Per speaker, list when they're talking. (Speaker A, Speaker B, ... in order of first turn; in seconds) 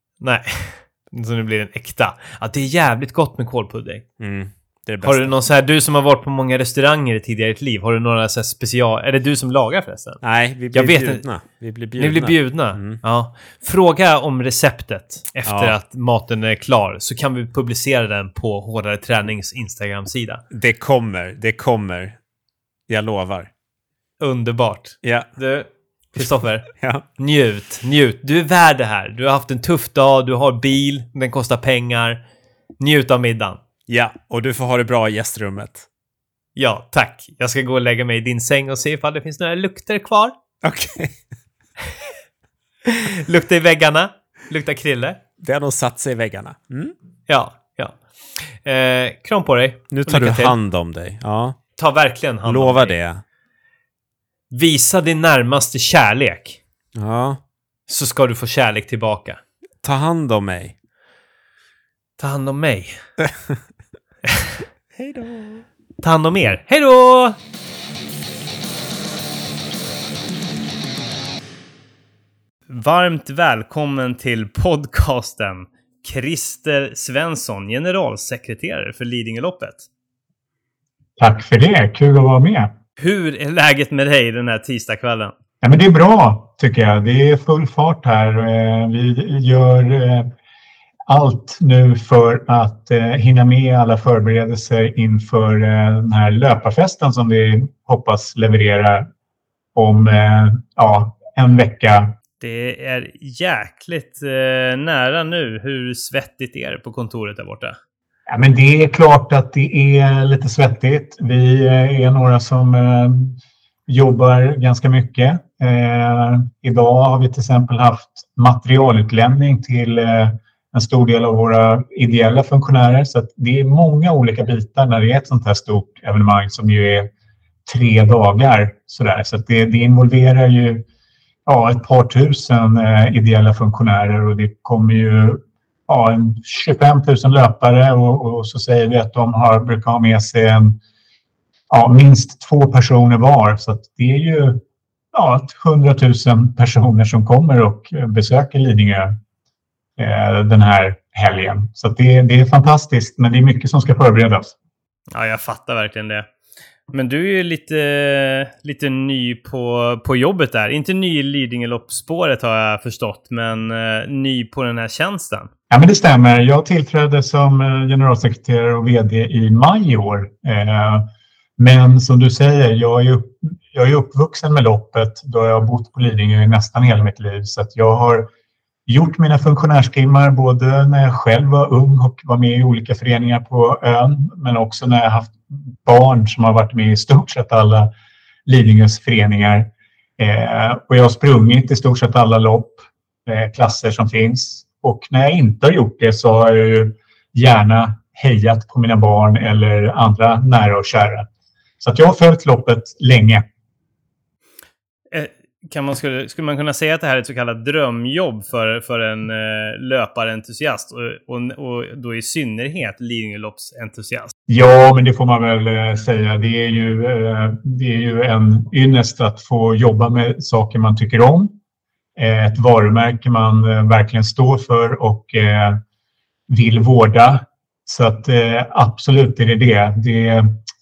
Speaker A: 0.2-4.0, 5.0-10.2, 10.7-11.2, 12.0-20.4, 24.2-26.7, 27.2-32.2, 32.8-33.6, 36.5-40.3, 42.9-45.2, 47.3-50.5, 51.8-53.0, 54.5-56.6, 57.9-59.4, 62.2-63.0, 66.0-67.4, 72.7-79.8, 83.0-85.3, 102.4-107.8, 155.1-156.2, 156.9-165.5, 205.1-214.3
Speaker B: 4.2-5.4, 10.2-13.0, 15.4-15.8, 20.5-22.2, 22.9-23.5, 25.0-25.3, 26.2-27.0, 33.9-35.9, 40.6-41.2, 45.4-46.9, 49.9-51.6, 52.4-53.2, 56.9-57.4, 59.8-60.7, 63.2-63.6, 64.9-65.7
Speaker C: 81.2-82.7, 85.6-90.3, 91.1-99.1, 99.7-102.1, 108.3-127.1, 127.7-130.8, 131.4-140.8, 141.7-144.6, 145.1-149.2, 150.0-154.5, 165.7-178.3, 178.9-187.9, 188.4-201.3, 201.8-203.4, 214.5-221.5, 222.2-225.8, 226.5-230.6